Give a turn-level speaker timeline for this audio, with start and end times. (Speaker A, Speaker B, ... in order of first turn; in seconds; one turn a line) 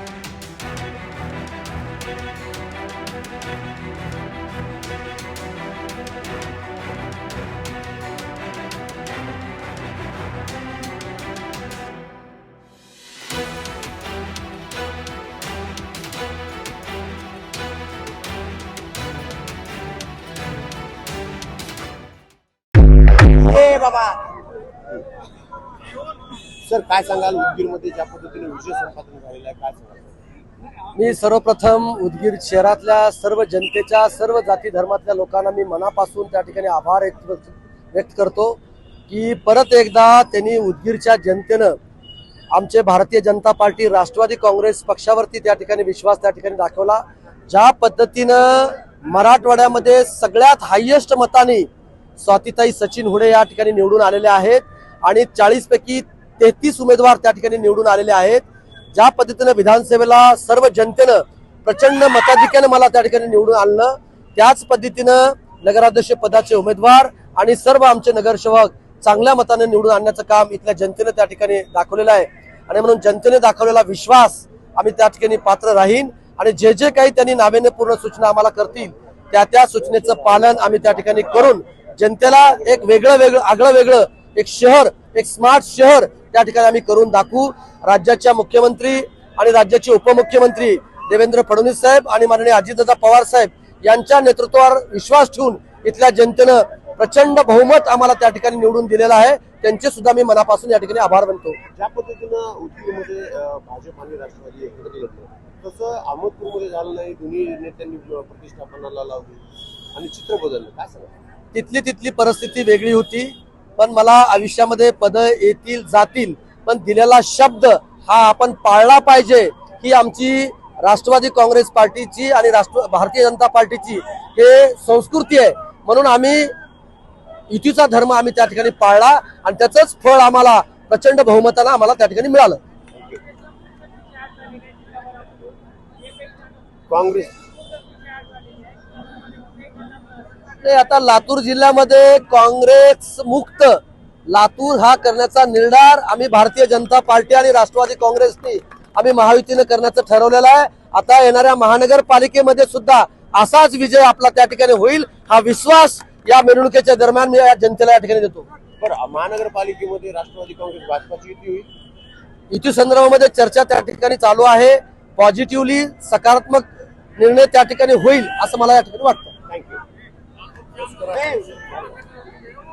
Speaker A: 23.3-24.3
Speaker A: 26.6-30.2
Speaker B: 30.9-41.8
Speaker B: 42.5-101.6
Speaker A: 101.8-111.1
Speaker B: 111.5-126.5
Speaker B: 127.5-132.6
Speaker A: 136.9-137.3
Speaker B: 140.6-158.5
Speaker A: 158.8-161.7
Speaker B: 162.5-169.3
Speaker A: 169.5-169.8
Speaker A: 171.0-171.7